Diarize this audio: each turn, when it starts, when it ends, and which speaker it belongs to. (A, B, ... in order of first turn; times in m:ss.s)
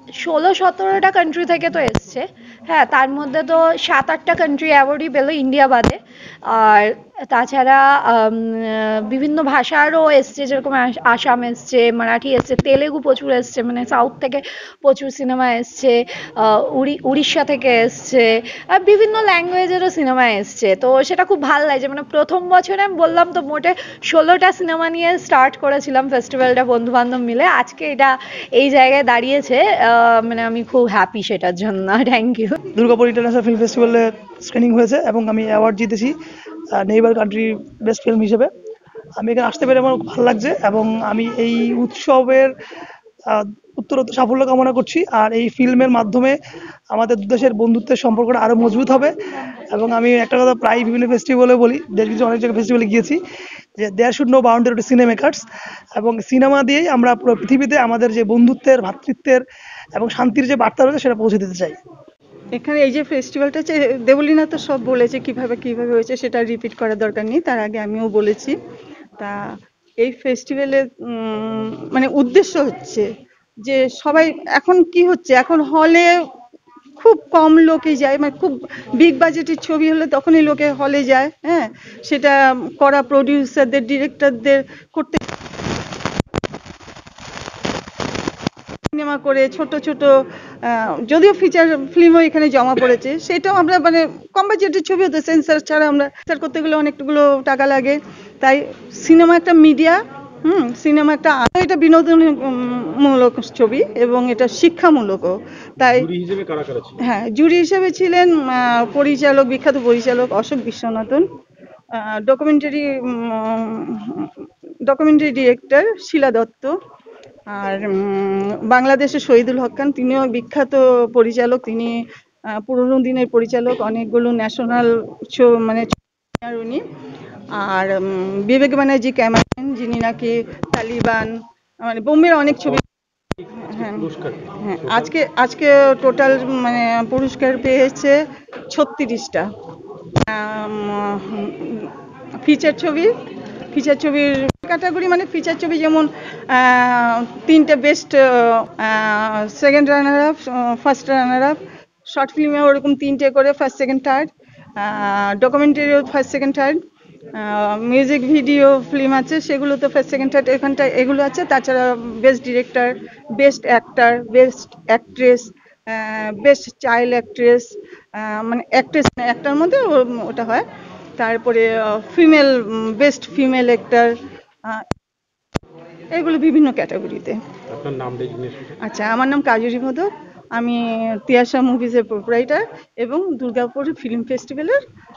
0:00.2-0:32.6 A
0:32.8-0:36.1 B
0:36.8-0:38.5 B
0:39.2-0:42.5 B
0:43.3-0:46.4 B
0:46.9-0:49.1 B
0:49.7-0:53.2 B
0:53.8-0:55.4 B
0:56.0-0:59.4 B
1:00.0-1:01.8 B
1:02.5-1:08.6 C
1:10.0-1:13.1 C
1:13.6-1:16.1 C
1:17.0-1:25.2 C
1:28.9-1:46.1 C
1:45.8-1:47.0 D
1:47.0-1:51.3 C
1:52.0-1:54.3 C
1:54.9-1:56.7 C
1:57.5-2:02.0 C
2:02.5-2:06.8 C
2:07.6-2:12.8 C
2:12.5-2:12.8 D
2:13.4-2:15.2 D
2:13.6-2:18.2 C
2:18.7-2:19.5 C
2:20.3-2:21.9 C
2:22.4-2:23.1 C
2:23.7-2:31.6 C
2:32.1-2:36.8 C
2:37.4-2:50.6 C
2:51.2-2:54.1 C
2:56.2-2:57.4 C
2:57.7-2:58.8 D
2:58.8-3:04.8 C